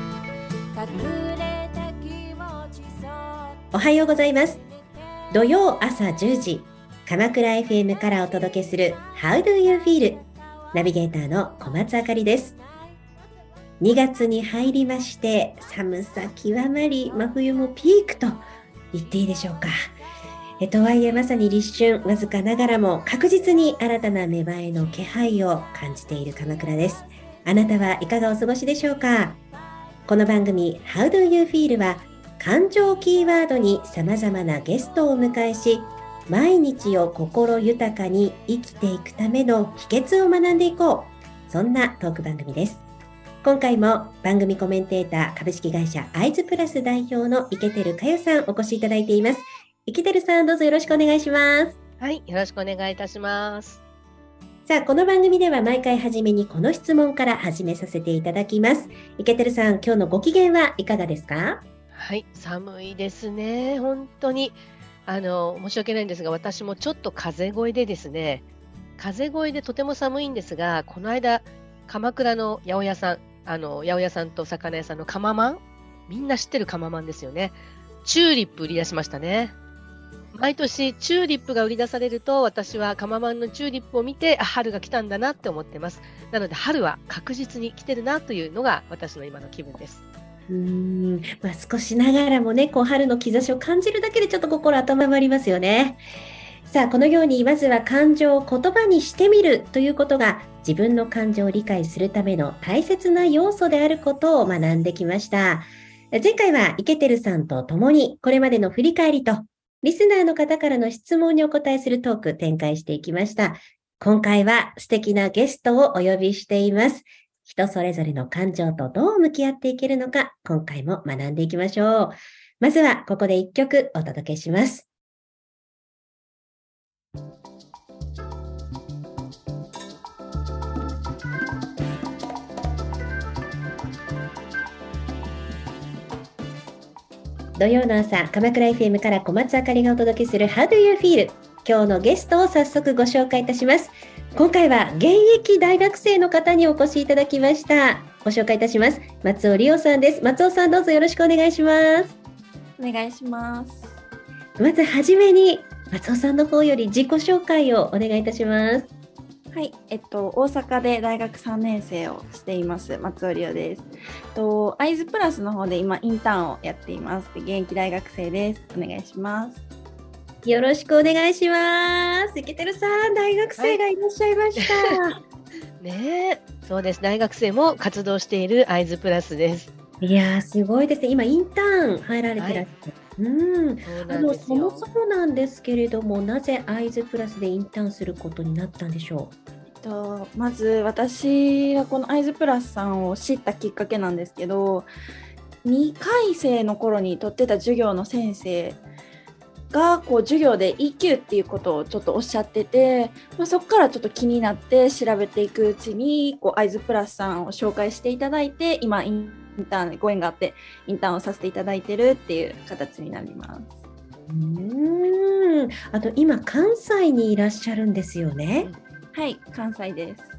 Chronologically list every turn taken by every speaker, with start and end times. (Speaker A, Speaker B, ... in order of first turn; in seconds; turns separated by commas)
Speaker A: 0.7-3.6, Speaker B: 3.7-4.6, Speaker B: 5.3-12.6, Speaker B: 13.8-19.7, Speaker B: 20.6-29.4, Speaker B: 30.1-42.8, Speaker B: 43.4-51.8, Speaker C: 52.0-53.8, Speaker B: 54.7-61.6, Speaker C: 61.9-68.4, Speaker C: 69.0-79.5, Speaker C: 80.3-90.0, Speaker B: 90.5-96.0, Speaker B: 96.7-124.8, Speaker B: 137.6-152.1, Speaker D: 152.8-153.9, Speaker B: 154.6-158.9, Speaker D: 159.5-169.6, Speaker B: 170.4-175.2, Speaker C: 174.6-175.0, Speaker C: 175.8-179.7, Speaker B: 180.0-189.3, Speaker C: 182.4-182.6, Speaker C: 183.8-184.8, Speaker D: 189.8-194.9, Speaker D: 195.6-198.8, Speaker D: 199.7-213.7, Speaker B: 214.2-218.7, Speaker D: 219.1-220.3